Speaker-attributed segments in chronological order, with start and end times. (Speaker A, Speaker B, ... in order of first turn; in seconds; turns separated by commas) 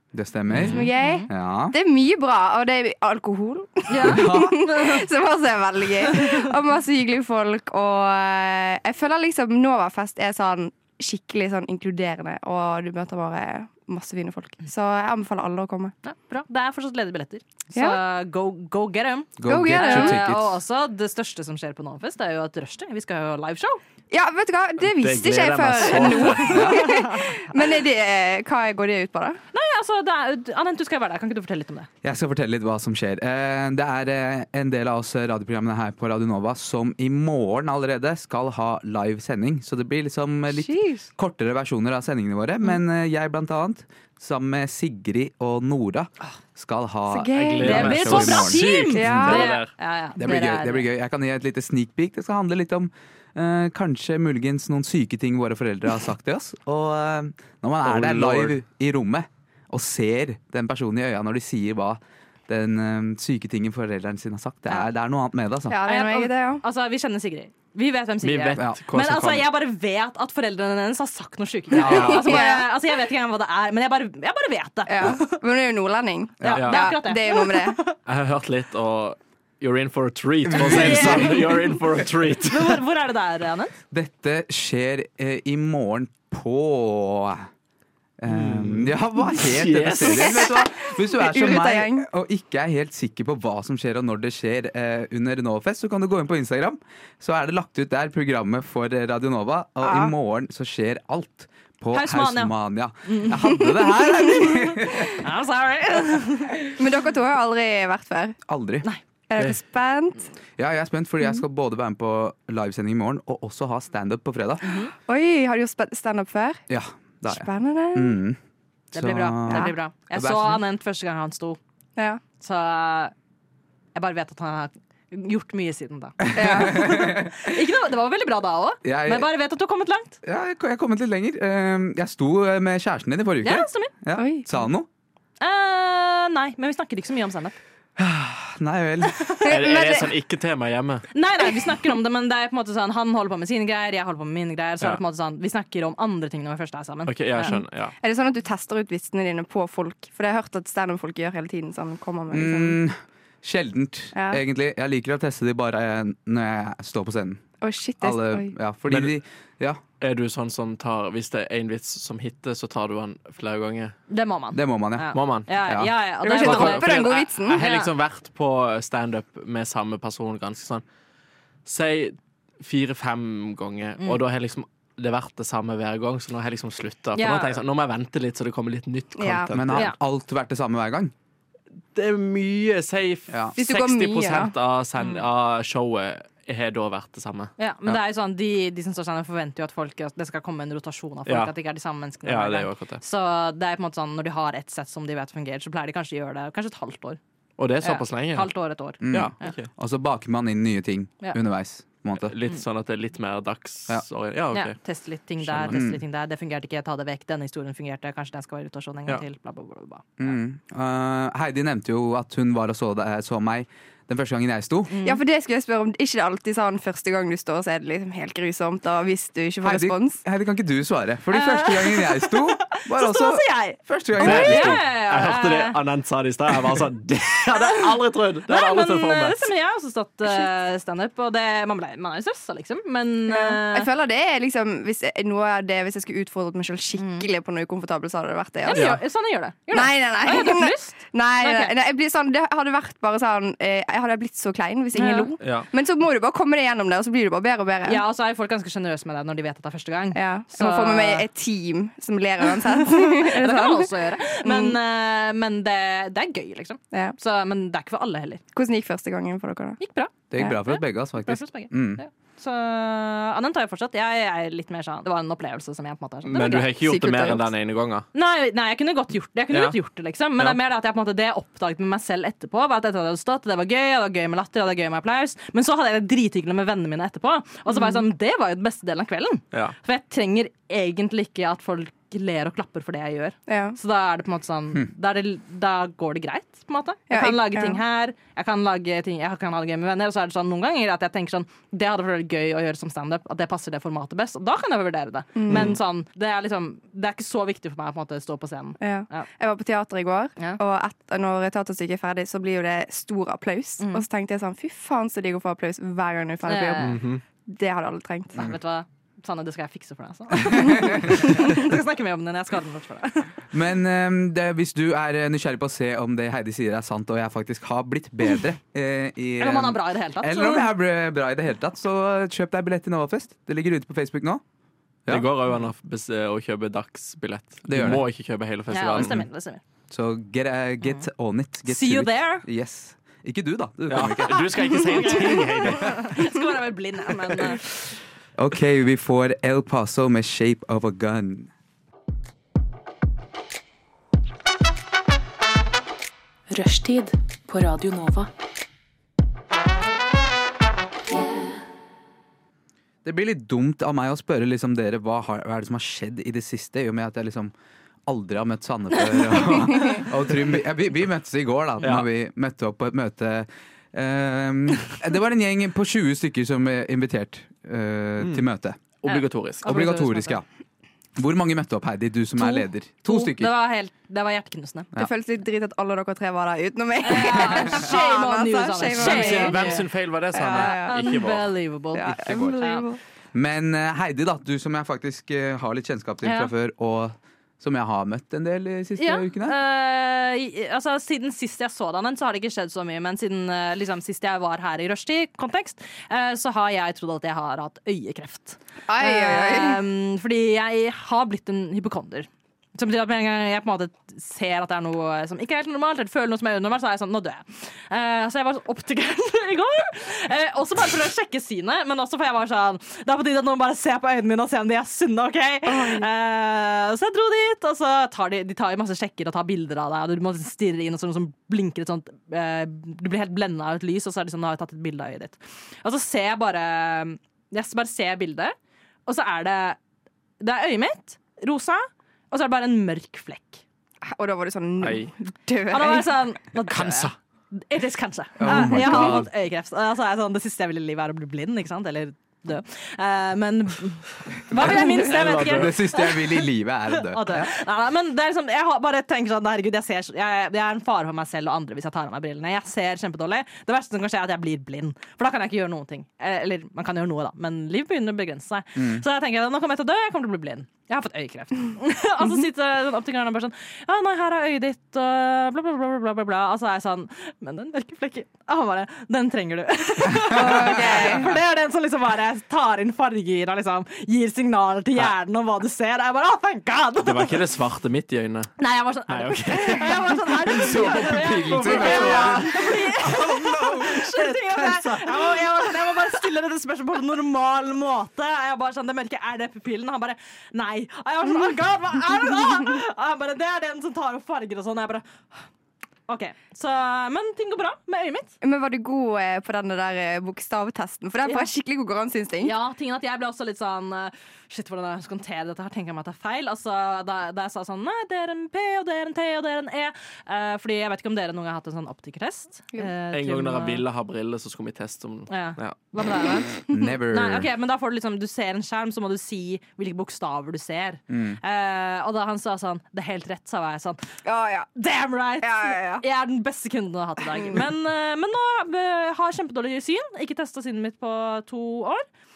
Speaker A: 0.1-1.8, Speaker B: 0.6-15.9, Speaker C: 0.7-1.3, Speaker C: 3.9-5.1, Speaker A: 4.0-4.6, Speaker C: 6.1-6.5, Speaker C: 16.0-23.8, Speaker A: 19.4-20.6, Speaker B: 19.4-20.2, Speaker B: 24.1-29.4, Speaker D: 24.9-26.7, Speaker A: 26.4-27.1, Speaker C: 26.5-27.3, Speaker C: 29.5-31.9, Speaker A: 32.0-49.4, Speaker B: 40.5-41.1, Speaker B: 47.1-48.2, Speaker D: 47.4-49.7, Speaker C: 47.6-50.9, Speaker B: 48.9-49.5, Speaker A: 50.2-65.8, Speaker D: 57.8-58.6, Speaker B: 65.7-66.6, Speaker C: 65.8-75.3, Speaker D: 68.2-69.5, Speaker A: 71.7-72.5, Speaker B: 71.8-72.8, Speaker B: 74.8-77.8, Speaker A: 76.4-76.7, Speaker C: 76.4-78.0, Speaker D: 76.5-76.8, Speaker D: 78.0-82.8, Speaker A: 80.4-81.7, Speaker C: 80.6-81.8, Speaker C: 82.3-83.7, Speaker A: 83.9-87.5, Speaker A: 88.2-105.2, Speaker D: 88.3-90.3, Speaker B: 90.0-92.0, Speaker B: 99.8-100.1, Speaker C: 101.9-103.6, Speaker B: 103.5-104.5, Speaker C: 105.1-106.6, Speaker B: 106.8-108.4, Speaker A: 108.5-108.9, Speaker B: 109.3-110.3, Speaker A: 110.6-114.7, Speaker C: 114.6-114.9, Speaker B: 115.1-116.6, Speaker A: 116.7-118.4, Speaker B: 117.3-118.2, Speaker A: 118.9-120.6, Speaker C: 118.9-121.6, Speaker B: 119.5-119.7, Speaker C: 122.4-123.1, Speaker C: 123.9-130.2, Speaker A: 126.2-127.5, Speaker B: 126.3-127.0, Speaker A: 128.8-129.3, Speaker A: 130.2-134.9, Speaker C: 133.4-133.9, Speaker B: 134.2-134.5, Speaker C: 135.4-137.6, Speaker A: 138.0-139.4, Speaker B: 139.4-140.1, Speaker D: 139.5-141.1, Speaker C: 141.1-147.6, Speaker D: 147.1-147.9, Speaker B: 147.5-152.8, Speaker A: 152.3-157.4, Speaker B: 154.1-154.4, Speaker B: 157.6-158.5, Speaker A: 158.0-159.8, Speaker D: 158.9-159.2, Speaker D: 160.0-163.9, Speaker C: 164.1-167.9, Speaker A: 164.5-165.9, Speaker D: 165.1-165.5, Speaker B: 166.2-167.6, Speaker D: 166.3-170.8, Speaker D: 171.7-179.9, Speaker C: 177.2-177.6, Speaker B: 179.2-179.5, Speaker A: 179.5-181.1, Speaker D: 181.9-187.5, Speaker A: 183.3-183.5, Speaker B: 183.6-184.5, Speaker C: 187.6-197.2, Speaker D: 191.2-191.5, Speaker D: 192.2-193.0, Speaker D: 197.6-198.5, Speaker C: 197.8-199.5, Speaker A: 199.0-202.3, Speaker D: 199.1-199.7, Speaker D: 202.2-204.8, Speaker C: 204.5-210.1, Speaker D: 205.4-205.8, Speaker A: 205.7-206.0, Speaker A: 210.2-214.9, Speaker C: 214.9-215.2, Speaker B: 215.0-220.2, Speaker A: 219.6-224.8, Speaker C: 221.3-225.8, Speaker D: 224.2-229.5, Speaker C: 228.5-233.9, Speaker B: 233.3-238.9, Speaker C: 237.0-237.3, Speaker C: 238.6-241.7, Speaker D: 238.7-239.0, Speaker B: 239.7-248.0, Speaker C: 244.9-245.3, Speaker D: 245.4-245.7, Speaker C: 247.8-251.3, Speaker B: 250.1-254.8, Speaker C: 252.7-258.4, Speaker B: 258.5-259.8, Speaker C: 259.8-266.7, Speaker A: 260.3-262.0, Speaker D: 266.2-268.1, Speaker B: 266.8-267.5, Speaker C: 268.1-299.3, Speaker D: 269.5-269.8, Speaker B: 277.7-278.0, Speaker B: 283.5-283.8, Speaker B: 287.1-287.8, Speaker B: 295.4-295.8, Speaker D: 295.5-295.8, Speaker B: 298.8-308.4, Speaker C: 303.8-304.0, Speaker C: 306.5-307.0, Speaker D: 306.8-307.2, Speaker C: 308.3-313.5, Speaker A: 310.5-311.3, Speaker A: 313.5-324.4, Speaker C: 319.4-320.7, Speaker D: 325.1-329.2, Speaker A: 327.7-328.1, Speaker C: 328.7-329.6, Speaker A: 329.9-335.0, Speaker C: 330.8-331.1, Speaker C: 331.6-332.4, Speaker D: 333.9-336.2, Speaker C: 334.9-337.6, Speaker A: 338.4-341.5, Speaker E: 346.5-348.3, Speaker E: 351.1-351.5, Speaker A: 353.0-357.5, Speaker A: 358.1-368.8, Speaker D: 361.8-362.1, Speaker D: 368.2-368.4, Speaker D: 369.0-369.8, Speaker C: 369.1-370.4, Speaker A: 369.6-370.4, Speaker A: 371.1-373.5, Speaker C: 372.4-374.9, Speaker B: 375.0-381.2, Speaker C: 377.0-379.9, Speaker D: 378.9-381.5, Speaker C: 380.5-382.8, Speaker A: 381.9-382.6, Speaker B: 381.9-383.0, Speaker A: 383.3-389.6, Speaker C: 386.2-386.5, Speaker C: 389.0-429.8, Speaker B: 398.9-399.8, Speaker B: 415.6-416.1, Speaker C: 430.4-433.6, Speaker B: 434.0-436.1, Speaker D: 434.8-435.1, Speaker C: 435.7-446.5, Speaker D: 436.7-437.1, Speaker A: 438.4-439.3, Speaker B: 438.5-439.1, Speaker A: 444.5-447.5, Speaker D: 444.6-445.8, Speaker B: 444.6-445.0, Speaker C: 447.0-477.4, Speaker A: 458.8-459.0, Speaker A: 470.2-471.2, Speaker B: 470.3-471.3, Speaker D: 477.0-478.5, Speaker C: 478.6-495.2, Speaker D: 479.1-485.5, Speaker A: 480.4-484.0, Speaker B: 492.4-492.6, Speaker C: 496.1-498.4, Speaker B: 498.4-502.5, Speaker C: 501.2-501.5, Speaker C: 502.4-513.8, Speaker D: 513.1-515.9, Speaker C: 515.3-524.0, Speaker A: 516.7-517.5, Speaker A: 521.1-521.4, Speaker B: 524.2-524.7, Speaker C: 524.8-532.0, Speaker B: 525.4-526.0